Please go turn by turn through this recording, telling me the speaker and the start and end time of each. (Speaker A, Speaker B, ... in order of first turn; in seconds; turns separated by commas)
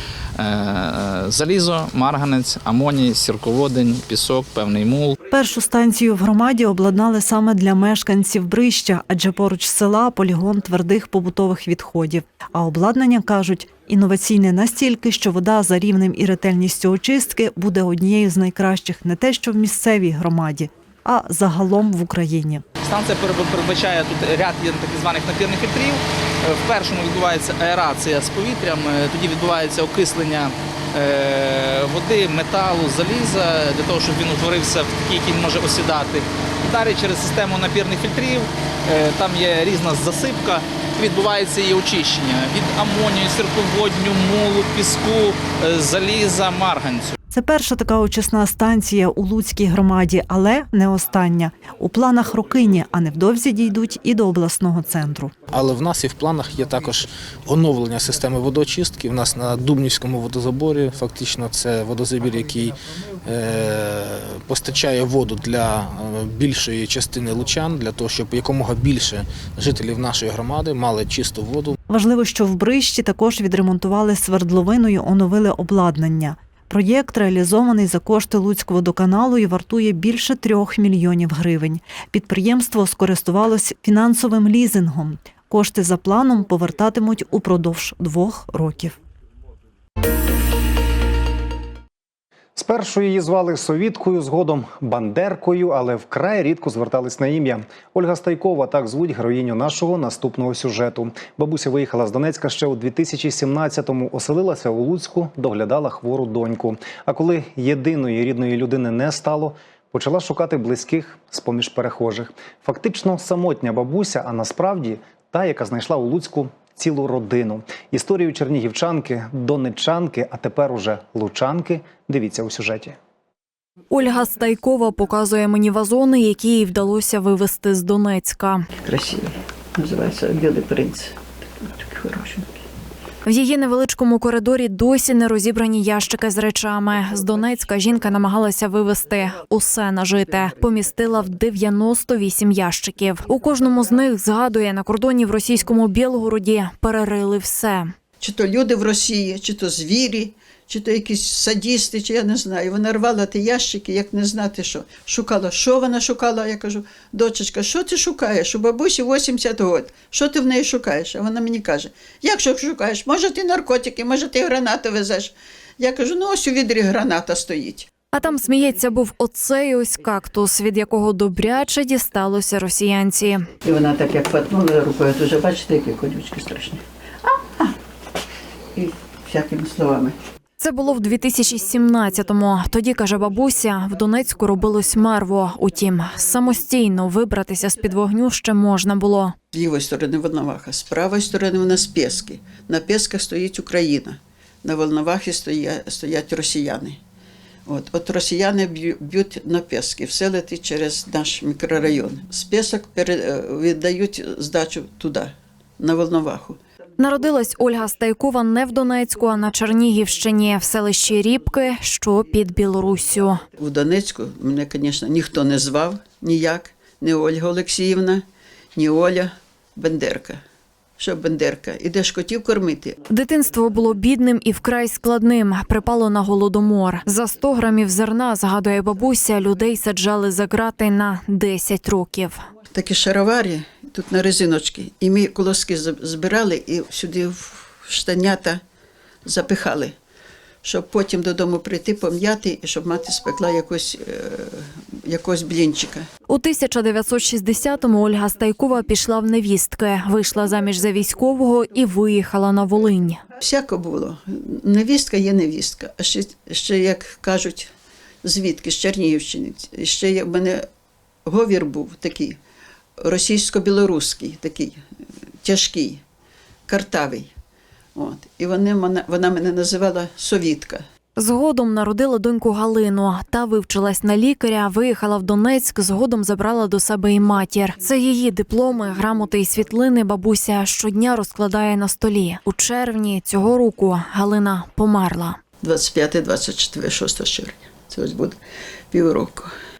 Speaker A: 0.4-5.1, Speaker B: 5.3-22.6, Speaker A: 22.8-47.1, Speaker B: 47.3-55.3, Speaker C: 55.5-71.8, Speaker B: 71.9-89.0, Speaker D: 92.5-123.0, Speaker E: 123.9-128.7, Speaker F: 128.8-132.6, Speaker E: 133.2-147.9, Speaker F: 148.2-167.9, Speaker E: 168.1-173.4, Speaker F: 173.6-177.7, Speaker F: 178.7-180.2, Speaker E: 180.6-189.3, Speaker F: 189.5-197.0, Speaker F: 197.7-206.6, Speaker E: 207.0-213.4, Speaker F: 213.6-220.4, Speaker F: 221.0-223.0, Speaker E: 223.1-232.4, Speaker F: 232.7-238.6, Speaker F: 239.2-239.9, Speaker F: 240.6-246.1, Speaker E: 246.3-253.2, Speaker F: 253.4-257.7, Speaker F: 258.2-260.6, Speaker F: 261.2-262.4, Speaker F: 263.0-264.8, Speaker F: 265.4-266.0, Speaker F: 266.7-267.3, Speaker F: 267.9-270.8, Speaker E: 271.1-285.4, Speaker F: 285.6-288.4, Speaker F: 288.9-289.5